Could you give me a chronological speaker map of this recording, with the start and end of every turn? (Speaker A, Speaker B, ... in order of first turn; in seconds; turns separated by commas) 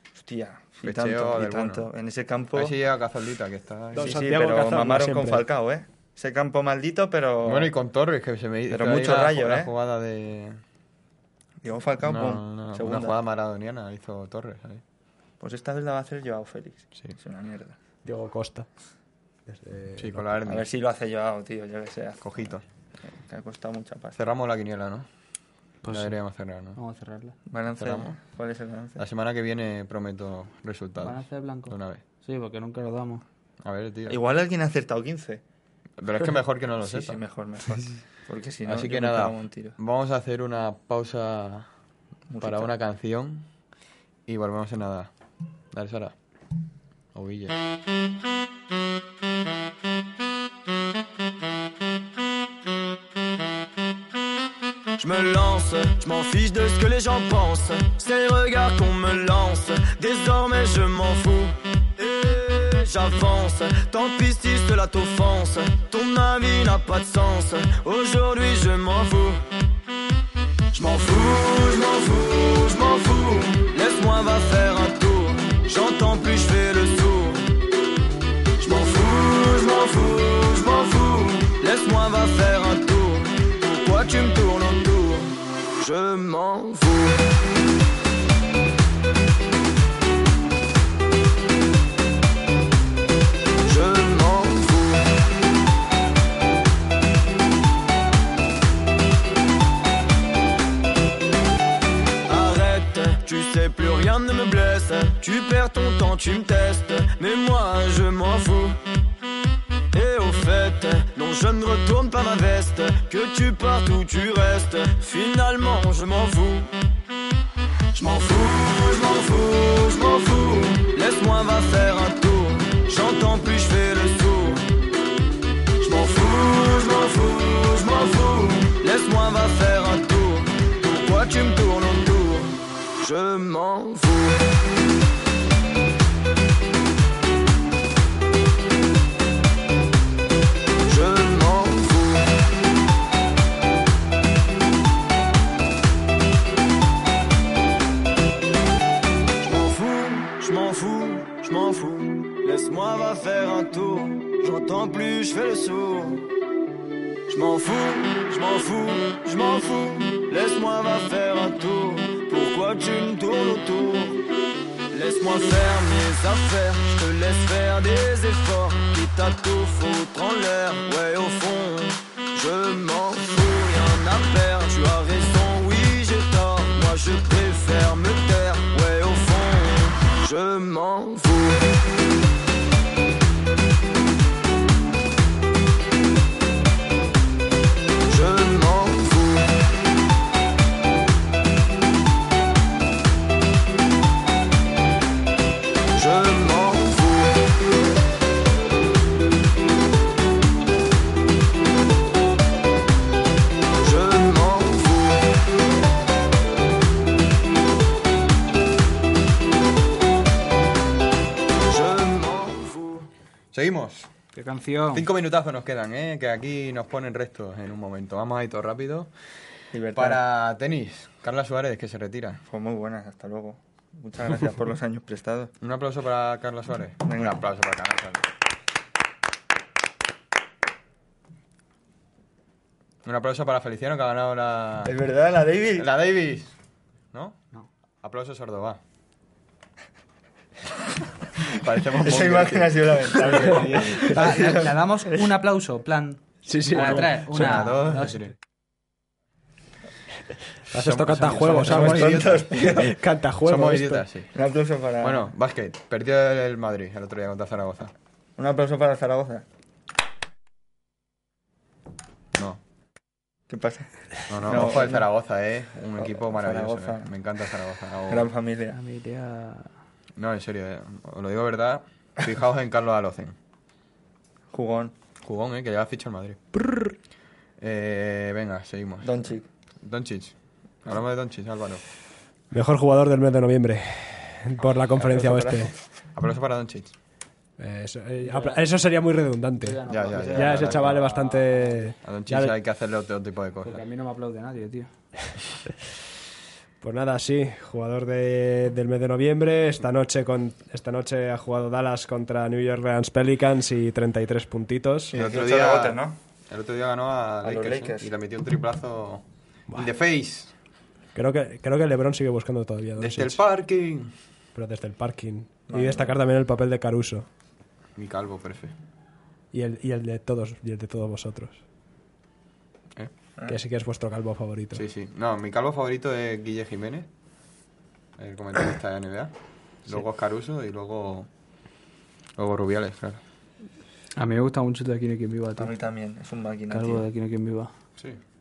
Speaker A: 0.1-2.7, Speaker B: 0.8-1.9, Speaker B: 2.5-4.2, Speaker C: 3.9-5.4, Speaker A: 4.0-7.7, Speaker B: 7.4-10.6, Speaker A: 8.7-9.7, Speaker A: 11.6-13.2, Speaker B: 12.0-14.8, Speaker A: 15.4-17.7, Speaker C: 18.0-18.7, Speaker C: 19.5-20.2, Speaker B: 19.9-20.6, Speaker A: 20.4-22.5, Speaker B: 22.2-22.6, Speaker A: 23.1-24.2, Speaker B: 24.1-25.1, Speaker D: 25.8-26.2, Speaker B: 25.8-26.8, Speaker D: 26.8-27.4, Speaker A: 27.5-29.0, Speaker B: 27.7-28.1, Speaker B: 29.0-32.0, Speaker D: 31.0-33.2, Speaker B: 33.6-34.2, Speaker A: 34.1-35.4, Speaker B: 36.0-37.2, Speaker A: 36.8-39.8, Speaker B: 38.6-41.7, Speaker A: 42.3-42.7, Speaker B: 42.4-43.4, Speaker B: 44.3-45.1, Speaker B: 45.7-46.1, Speaker B: 47.1-47.5, Speaker E: 55.0-69.5, Speaker E: 70.7-77.6, Speaker E: 78.6-87.3, Speaker E: 93.6-95.2, Speaker E: 102.3-108.8, Speaker E: 109.9-116.7, Speaker E: 117.9-124.7, Speaker E: 125.8-134.5, Speaker E: 140.8-142.4, Speaker E: 149.4-156.3, Speaker E: 157.3-164.3, Speaker E: 164.9-181.7, Speaker E: 188.1-189.6, Speaker E: 195.9-197.5, Speaker E: 203.8-205.4, Speaker E: 211.6-213.1, Speaker B: 213.5-214.1, Speaker D: 214.3-215.1, Speaker B: 214.9-219.1, Speaker A: 219.7-220.2, Speaker B: 219.9-222.4, Speaker A: 222.4-225.5, Speaker B: 225.6-228.3, Speaker A: 227.1-227.4, Speaker B: 233.0-234.9, Speaker A: 234.8-235.9, Speaker B: 235.8-236.5, Speaker B: 237.1-237.4, Speaker B: 238.0-238.8, Speaker B: 241.5-244.1, Speaker A: 242.0-244.8, Speaker D: 244.1-248.3, Speaker C: 246.4-247.7, Speaker B: 246.7-248.3, Speaker B: 250.7-252.8, Speaker C: 250.7-254.1, Speaker A: 251.5-253.0, Speaker B: 253.4-254.3, Speaker A: 254.3-255.3, Speaker B: 255.0-257.9, Speaker A: 258.4-259.4, Speaker A: 263.5-265.1, Speaker B: 264.3-268.2, Speaker A: 266.0-267.1, Speaker A: 268.1-268.8, Speaker D: 268.7-269.7, Speaker B: 270.1-273.3, Speaker A: 274.5-274.9, Speaker B: 275.2-276.4, Speaker C: 276.5-276.9, Speaker B: 277.6-279.2, Speaker A: 279.0-279.4, Speaker B: 279.8-281.8, Speaker C: 282.5-285.7, Speaker A: 285.0-285.7, Speaker B: 286.1-286.9, Speaker C: 287.6-292.5, Speaker D: 288.2-288.7, Speaker D: 289.6-292.0, Speaker B: 289.9-291.0, Speaker B: 292.0-293.8, Speaker D: 293.6-294.9, Speaker C: 296.8-305.1, Speaker A: 305.1-306.2, Speaker B: 305.1-310.5, Speaker A: 307.4-308.1, Speaker C: 311.1-313.4, Speaker B: 313.0-314.1, Speaker C: 314.5-317.3, Speaker A: 315.7-316.1, Speaker B: 317.9-318.7, Speaker C: 319.5-321.6, Speaker C: 323.5-324.8, Speaker B: 324.7-327.1, Speaker B: 328.2-329.3, Speaker B: 329.8-331.3, Speaker B: 332.4-333.2, Speaker D: 334.1-335.7, Speaker A: 335.6-337.0, Speaker D: 336.7-337.7